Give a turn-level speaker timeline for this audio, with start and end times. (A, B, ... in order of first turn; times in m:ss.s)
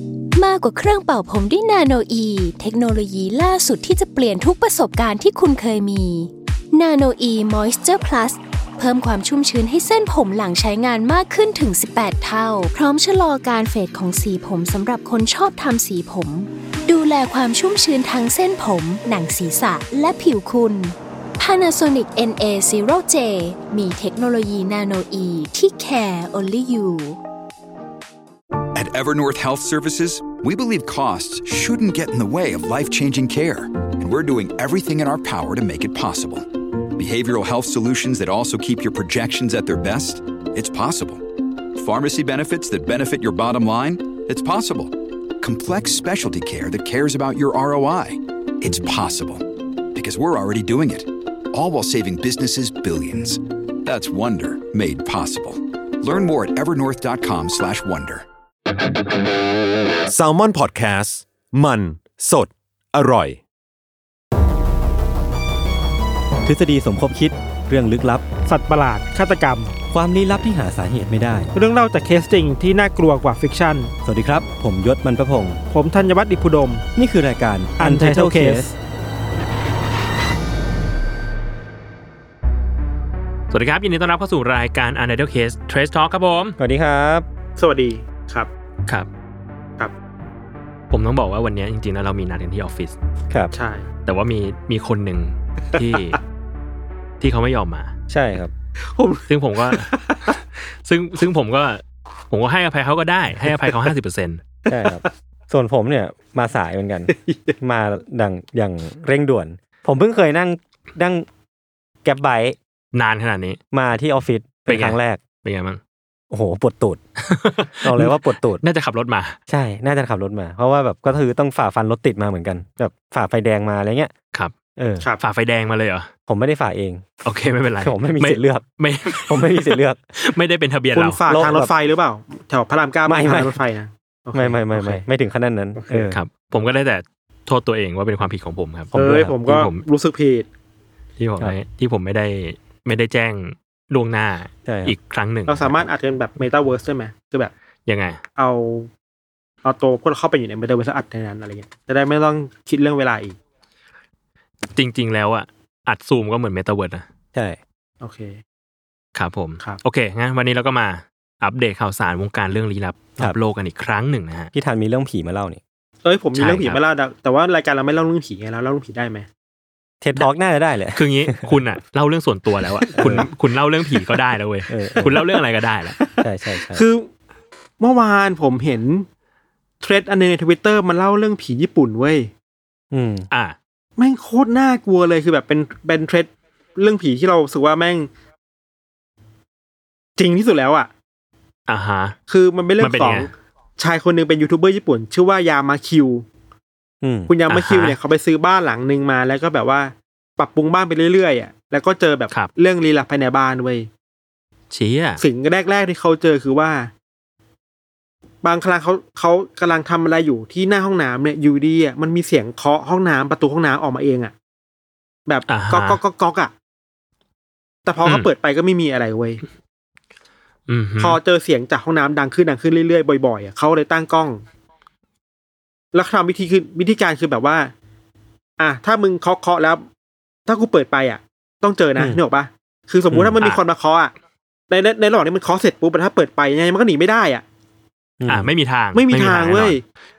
0:00.4-0:27.2 A
0:28.7-0:58.2 B
1:00.1-1:03.4 C
1:06.4-1:08.2 D
1:08.5-1:09.7 E
1:09.9-1:11.5 D
1:11.5-1:13.9 E
1:14.0-1:15.6 D
1:15.7-1:16.8 E
1:17.0-1:18.7 D
1:17.8-1:18.7 E
1:23.5-1:26.6 F
1:26.6-1:27.2 D
1:27.6-1:28.5 E
1:30.9-1:33.0 F
1:33.5-1:33.9 E
1:34.0-1:36.2 F
1:35.7-1:36.1 E
1:37.2-1:37.9 F
1:38.1-1:38.5 D
1:38.9-1:40.4 E
1:39.3-1:44.4 F
1:44.7-1:51.3 D
1:44.7-1:45.1 E
1:47.1-1:47.5 E
1:52.0-1:52.6 D
1:52.9-1:53.6 F
1:53.7-1:55.2 D
1:54.7-1:55.8 F
1:56.3-1:57.0 D
1:57.2-1:59.4 F
1:57.8-1:58.6 D
1:59.5-2:04.1 D
2:04.8-2:05.0 D
2:05.2-2:06.1 F
2:06.3-2:07.0 D
2:07.2-2:11.5 F
2:07.8-2:08.6 D
2:09.2-2:10.0 D
2:10.9-2:15.0 E
2:11.3-2:11.7 D
2:13.0-2:13.6 D
2:14.3-2:16.2 D
2:15.8-2:16.1 E
2:16.1-2:18.9 F
2:18.9-2:19.4 D
2:18.9-2:20.5 E
2:19.4-2:19.8 F
2:21.2-2:25.8 F
2:24.6-2:25.0 D
2:25.5-2:27.5 E
2:27.9-2:28.2 F
2:28.4-2:28.9 E
2:29.6-2:33.4 E
2:34.7-2:37.0 F
2:38.0-2:38.4 E
2:39.1-2:44.5 F
2:44.5-2:45.6 D
2:46.0-2:49.3 E
2:46.4-2:46.8 F
2:50.0-2:51.6 D
2:50.9-2:56.0 F
2:52.8-2:53.3 E
2:52.9-2:53.2 D
2:54.7-2:55.2 D
2:56.0-2:57.1 E
2:56.2-2:56.8 D
2:57.8-2:59.0 E
2:59.8-3:02.3 E
3:02.9-3:03.3 D
3:03.3-3:03.6 F
3:04.0-3:08.1 E
3:10.2-3:10.9 E
3:11.7-3:12.2 F
3:12.3-3:16.2 E
3:12.8-3:13.3 F
3:17.0-3:17.3 D
3:17.3-3:23.9 E
3:17.5-3:18.0 F
3:24.7-3:25.2 F
3:25.2-3:26.9 E
3:28.4-3:34.3 E
3:35.3-3:36.5 E
3:35.5-3:36.0 F
3:37.8-3:39.4 E
3:40.7-3:41.2 F
3:41.0-3:44.4 E
3:45.9-3:47.7 E
3:48.6-3:49.8 E
3:50.5-3:54.1 E
3:53.1-3:53.6 F
3:54.7-3:57.4 E
3:58.2-3:58.5 D
3:58.3-3:59.8 F
3:58.9-3:59.8 E